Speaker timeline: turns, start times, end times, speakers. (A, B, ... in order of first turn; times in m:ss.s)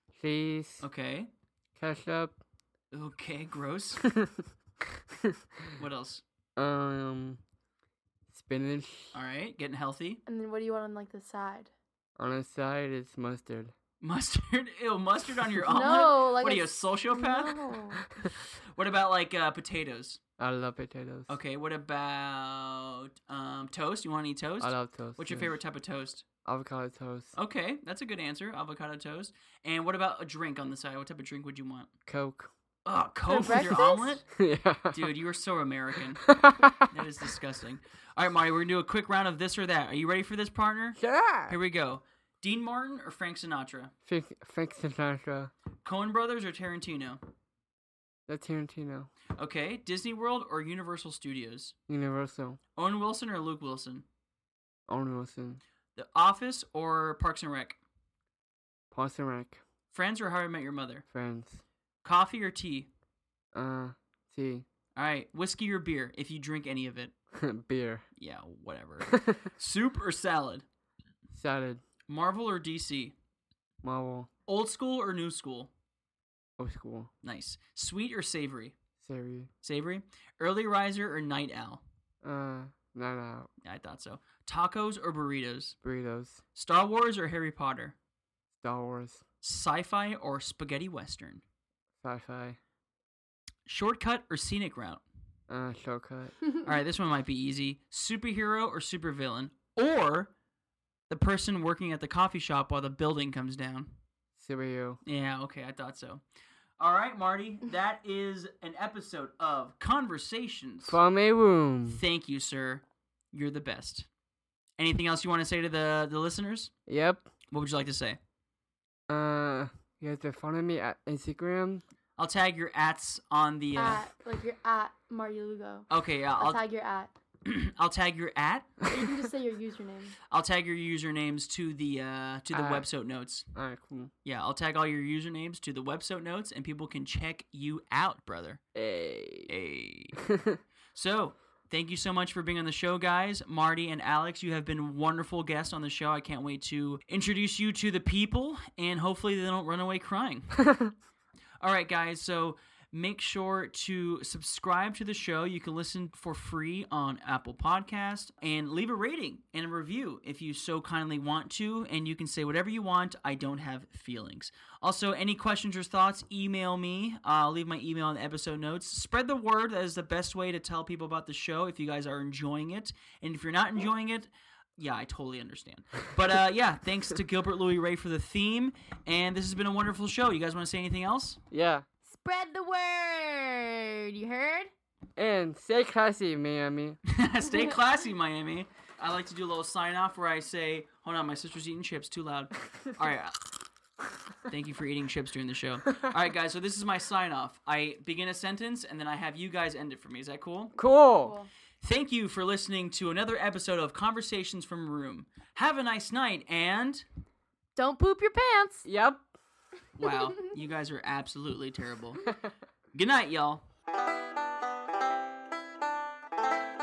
0:00.2-0:00.8 A
0:00.8-0:01.3 B
0:01.8-0:02.4 A
0:02.9-0:04.0 B
0:04.0-0:04.4 A
0:04.9-0:05.8 A
0:05.8-0:06.2 B
0:06.6-0:07.4 A
0:08.3-0:09.1 A
0:09.1-0:10.2 B
0:10.2-0:11.7 C
0:12.2-0:13.7 A
0:14.0-0:17.6 B
0:15.7-0:18.0 C
0:18.0-0:18.3 A
0:18.7-0:20.2 B
0:20.4-0:21.3 A
0:21.3-0:26.2 B
0:24.6-0:25.5 A
0:26.4-0:27.3 A
0:27.4-0:31.9 B
0:32.1-0:32.5 A
0:32.8-0:34.2 B
0:33.3-0:34.2 C
0:34.3-0:35.1 A
0:34.9-0:36.2 B
0:36.2-0:36.9 A
0:36.9-0:43.9 B
0:41.0-0:41.6 A
0:44.0-0:45.5 A
0:45.8-0:47.2 B
0:48.3-0:49.1 A
0:49.4-0:51.7 B
0:51.9-0:52.6 A
0:52.8-0:54.0 B
0:54.9-0:55.6 A
0:55.9-0:57.8 B
0:58.9-0:59.6 A
0:59.9-1:01.0 B
1:01.1-1:01.6 A
1:02.0-1:02.9 B
1:03.5-1:04.6 A
1:05.0-1:07.1 B
1:07.3-1:08.0 A
1:08.2-1:10.6 B
1:09.1-1:09.4 A
1:11.3-1:11.8 A
1:12.1-1:13.1 B
1:13.8-1:14.3 A
1:14.5-1:15.7 B
1:16.6-1:17.1 A
1:17.2-1:18.7 B
1:19.0-1:19.5 A
1:19.6-1:21.8 B
1:22.2-1:23.5 A
1:23.6-1:25.8 B
1:25.8-1:26.4 A
1:26.6-1:28.0 B
1:28.6-1:29.2 A
1:29.4-1:31.4 B
1:32.0-1:32.6 A
1:33.6-1:35.0 B
1:35.5-1:36.5 A
1:36.6-1:40.3 B
1:41.1-1:43.9 B
1:44.4-1:45.0 A
1:45.0-1:46.2 B
1:46.8-1:51.0 B
1:50.8-1:52.0 A
1:51.9-1:54.1 B
1:54.8-1:56.7 B
1:56.9-1:57.3 A
1:57.5-1:58.2 B
1:59.1-2:01.8 A
2:02.2-2:04.0 B
2:03.7-2:07.1 C
2:05.9-2:06.6 B
2:07.4-2:08.7 B
2:08.9-2:10.1 C
2:10.3-2:13.4 B
2:12.5-2:12.8 A
2:13.5-2:14.1 A
2:14.2-2:18.6 B
2:18.7-2:19.5 A
2:19.5-2:20.2 B
2:20.2-2:20.6 A
2:20.9-2:30.6 B
2:31.6-3:01.4 B
3:01.5-3:01.8 A
3:02.0-3:04.7 C
3:05.2-3:07.0 A
3:07.0-3:13.5 B
3:14.5-3:20.7 B
3:20.8-3:21.3 A
3:21.2-3:21.5 C
3:21.8-3:27.0 B
3:27.8-3:28.8 C
3:28.8-3:29.2 A
3:30.0-3:32.2 B
3:32.9-3:33.6 B